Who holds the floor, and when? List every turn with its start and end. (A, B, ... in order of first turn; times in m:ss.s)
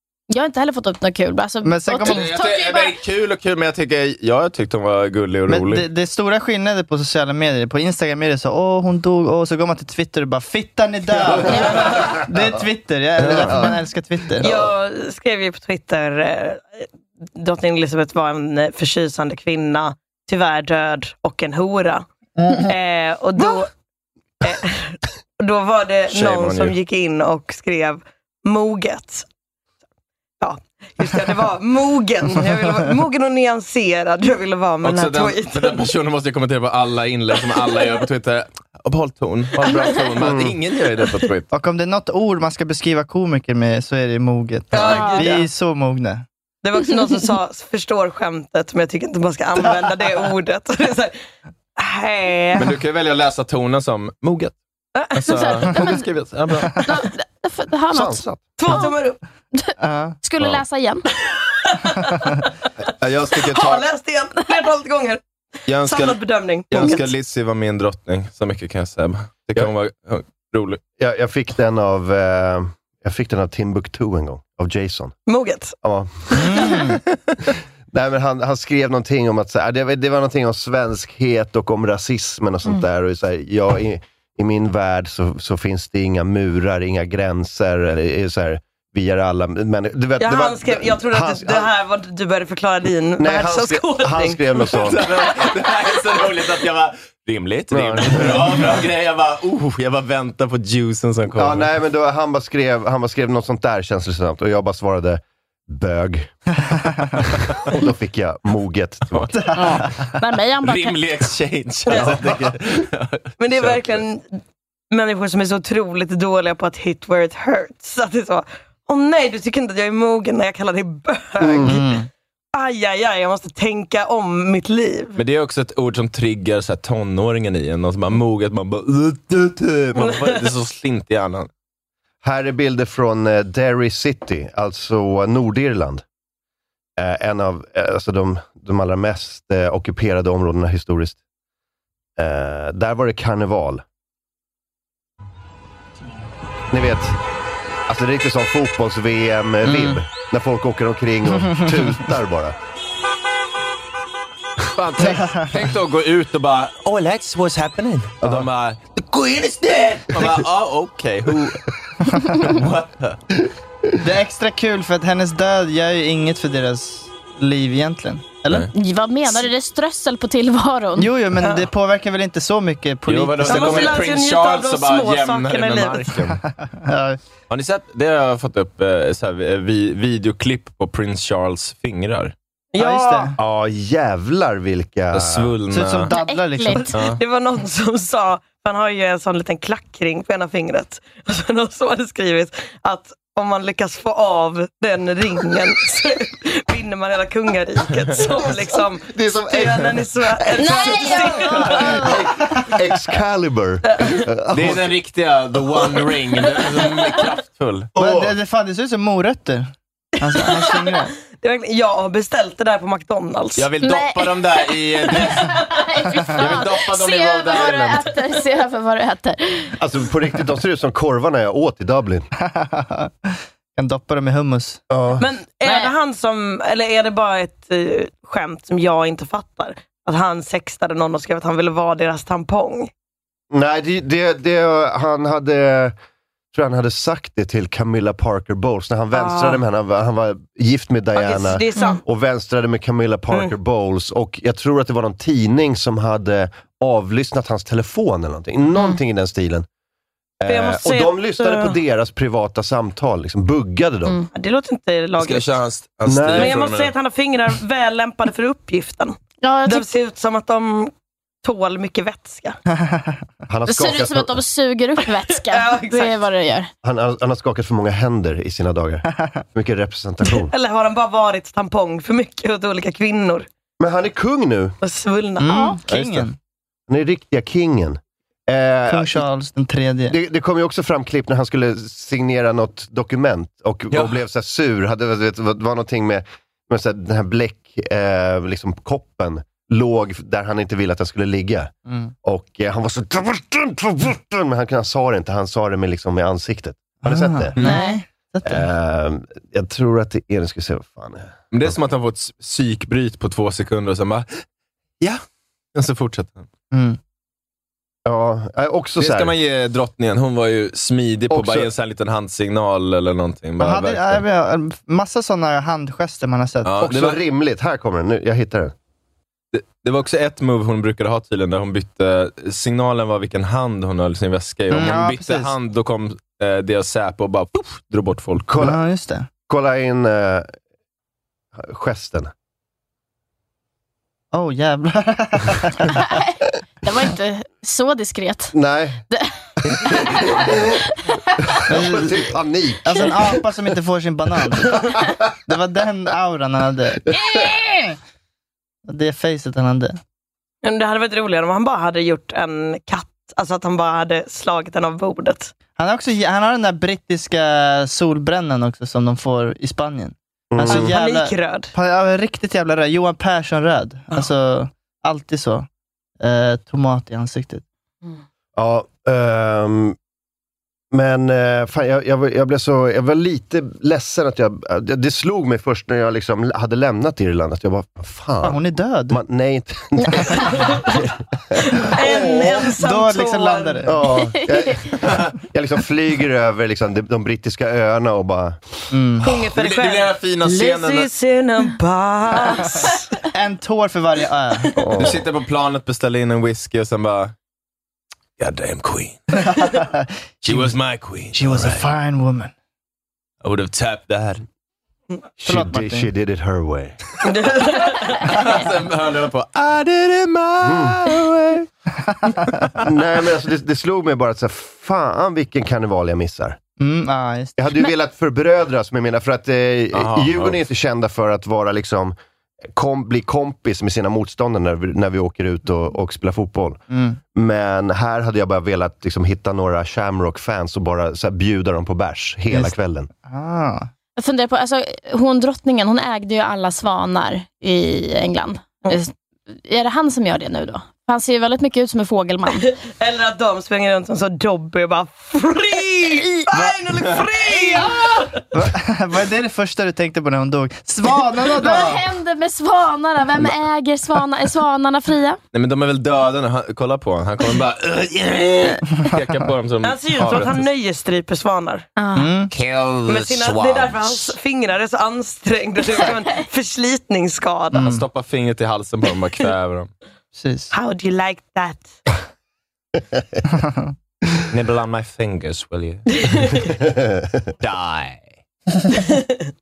0:00.3-0:03.0 A
0:01.6-0:02.3 B
0:02.0-0:05.8 C
0:05.5-0:14.5 B
0:11.5-0:12.2 A
0:13.2-0:13.7 C
0:13.3-0:13.7 D
0:14.4-0:23.7 E
0:24.4-0:29.2 E
0:26.1-0:26.7 C
0:30.4-0:35.9 E
0:34.8-0:41.5 C
0:40.2-0:40.6 D
0:41.5-0:46.2 B
0:44.7-0:45.4 E
0:44.8-0:45.3 A
0:46.6-0:51.2 E
0:51.8-0:52.8 E
0:52.6-0:54.6 C
0:55.1-0:57.0 C
0:55.3-0:56.0 A
0:56.7-0:58.9 A
0:57.9-0:58.4 D
0:58.6-0:59.2 E
0:59.5-1:01.0 A
0:59.8-1:00.2 B
1:01.3-1:02.5 E
1:02.8-1:03.8 C
1:03.3-1:05.2 E
1:05.7-1:10.8 C
1:05.8-1:07.1 E
1:11.0-1:15.1 D
1:15.3-1:15.7 E
1:15.8-1:16.7 D
1:16.3-1:17.0 B
1:17.9-1:31.7 D
1:30.2-1:34.4 E
1:33.2-1:35.1 D
1:34.7-1:41.7 C
1:37.7-1:38.8 D
1:41.3-1:46.4 D
1:47.2-1:49.5 D
1:49.1-1:49.4 C
1:49.3-1:50.0 B
1:49.5-1:51.0 A
1:50.6-1:54.0 C
1:51.8-1:52.2 E
1:51.9-1:52.6 D
1:53.4-1:54.4 E
1:54.9-2:01.9 E
2:01.4-2:01.8 D
2:01.6-2:02.1 B
2:02.5-2:05.2 E
2:05.2-2:11.5 C
2:10.0-2:10.4 E
2:12.2-2:16.0 D
2:17.0-2:21.2 D
2:22.2-2:23.8 D
2:26.7-2:27.2 D
2:27.9-2:32.5 D
2:29.6-2:30.0 B
2:31.4-2:31.9 B
2:34.7-2:43.2 C
2:35.0-2:35.5 B
2:38.2-2:38.5 D
2:44.0-2:48.7 B
2:48.7-2:51.1 A
2:51.0-2:54.0 B
2:51.4-2:51.7 E
2:53.1-2:56.4 C
2:53.4-2:56.2 E
2:56.4-2:57.2 B
2:57.5-3:02.3 C
3:02.7-3:03.3 E
3:02.8-3:03.4 B
3:03.4-3:05.5 D
3:05.1-3:06.1 C
3:05.7-3:06.8 B
3:06.1-3:06.9 A
3:06.9-3:07.2 C
3:06.9-3:22.1 E
3:18.2-3:18.5 D
3:19.0-3:25.0 D
3:20.6-3:22.1 A
3:23.9-3:24.2 E
3:24.5-3:28.3 C
3:26.6-3:27.1 E
3:28.0-3:31.1 B
3:30.4-3:33.7 E
3:33.6-3:38.2 C
3:33.8-3:39.7 A
3:39.8-3:42.3 D
3:42.4-3:44.8 B
3:44.9-3:45.2 D
3:45.2-3:52.9 E
3:45.6-3:45.9 A
3:53.5-3:55.9 D
3:56.5-4:09.6 D
3:59.1-3:59.6 E
4:01.2-4:02.0 E
4:01.8-4:02.0 A
4:10.4-4:14.2 D
4:10.5-4:11.8 E
4:14.3-4:15.6 E
4:15.2-4:16.9 C
4:16.0-4:16.6 D
4:16.3-4:20.9 E
4:19.4-4:19.9 A
4:21.4-4:22.6 E
4:22.7-4:23.2 B
4:23.5-4:24.4 D
4:23.7-4:26.7 A
4:25.4-4:26.2 E
4:26.8-4:30.5 D
4:30.2-4:33.4 E
4:33.8-4:34.7 D
4:34.8-4:35.5 E
4:35.4-4:36.3 B
4:35.4-4:35.8 A
4:36.9-4:39.2 D
4:38.9-4:40.2 B
4:40.1-4:51.7 D
4:51.9-4:52.1 B
4:52.2-4:57.6 D
4:57.0-4:58.7 B
4:57.6-4:58.0 A
4:58.4-5:01.7 D
5:01.5-5:04.3 C
5:05.7-5:06.5 C
5:06.7-5:07.0 B
5:08.0-5:09.3 D
5:09.0-5:14.2 C
5:11.3-5:11.7 D
5:13.6-5:16.7 B
5:16.6-5:17.2 C
5:16.8-5:18.7 D
5:19.5-5:28.6 C
5:24.7-5:25.5 B
5:28.4-5:28.8 D
5:28.6-5:29.3 B
5:29.5-5:30.5 D
5:31.6-5:32.3 D
5:34.3-5:36.2 B
5:36.0-5:38.5 A
5:38.5-5:39.0 D
5:39.1-5:40.3 A
5:39.7-5:40.8 D
5:40.9-5:41.6 A
5:41.5-5:43.2 D
5:41.7-5:42.3 B
5:42.8-5:44.8 B
5:45.5-5:47.1 B
5:48.9-5:50.0 B
5:50.6-5:55.5 E
5:55.8-6:05.7 B
6:00.5-6:00.9 D
6:00.7-6:01.7 E
6:06.2-6:07.6 B
6:08.6-6:10.0 D
6:10.9-6:22.5 D
6:18.4-6:19.2 B
6:20.5-6:21.0 E
6:21.7-6:23.9 E
6:22.8-6:23.9 B
6:23.8-6:28.6 D
6:25.0-6:25.3 C
6:28.9-6:29.2 B
6:29.2-6:33.1 E
6:29.5-6:31.1 C
6:33.3-6:34.7 B
6:34.8-6:35.2 D
6:35.0-6:37.3 C
6:38.4-6:39.5 C
6:39.4-6:40.7 B
6:40.4-6:41.8 C
6:41.3-6:42.5 B
6:43.4-6:44.4 C
6:45.4-6:47.0 D
6:45.4-6:46.1 B
6:47.2-6:48.4 E
6:48.2-6:51.7 C
6:50.6-6:51.0 D
6:52.1-6:52.5 B
6:52.8-6:56.6 D
6:56.8-6:57.6 B
6:57.6-7:02.1 D
6:59.9-7:00.6 C
7:02.7-7:06.8 D
7:06.9-7:07.2 B
7:07.3-7:13.1 D
7:12.5-7:13.9 B
7:14.2-7:22.7 A
7:22.5-7:28.4 E
7:26.5-7:27.9 C
7:28.5-7:32.0 B
7:31.5-7:35.4 A
7:35.5-7:40.7 C
7:39.8-7:41.8 E
7:42.0-7:42.3 A
7:42.1-7:42.5 B
7:42.5-7:44.3 C
7:43.0-7:47.8 E
7:47.7-7:48.0 B
7:47.8-7:49.9 C
7:50.4-7:50.7 B
7:50.7-7:52.0 E
7:53.5-7:53.9 B
7:54.5-7:56.6 C
7:56.2-7:56.7 E
7:56.8-7:57.4 D
7:57.6-7:58.3 C
7:59.0-7:59.3 E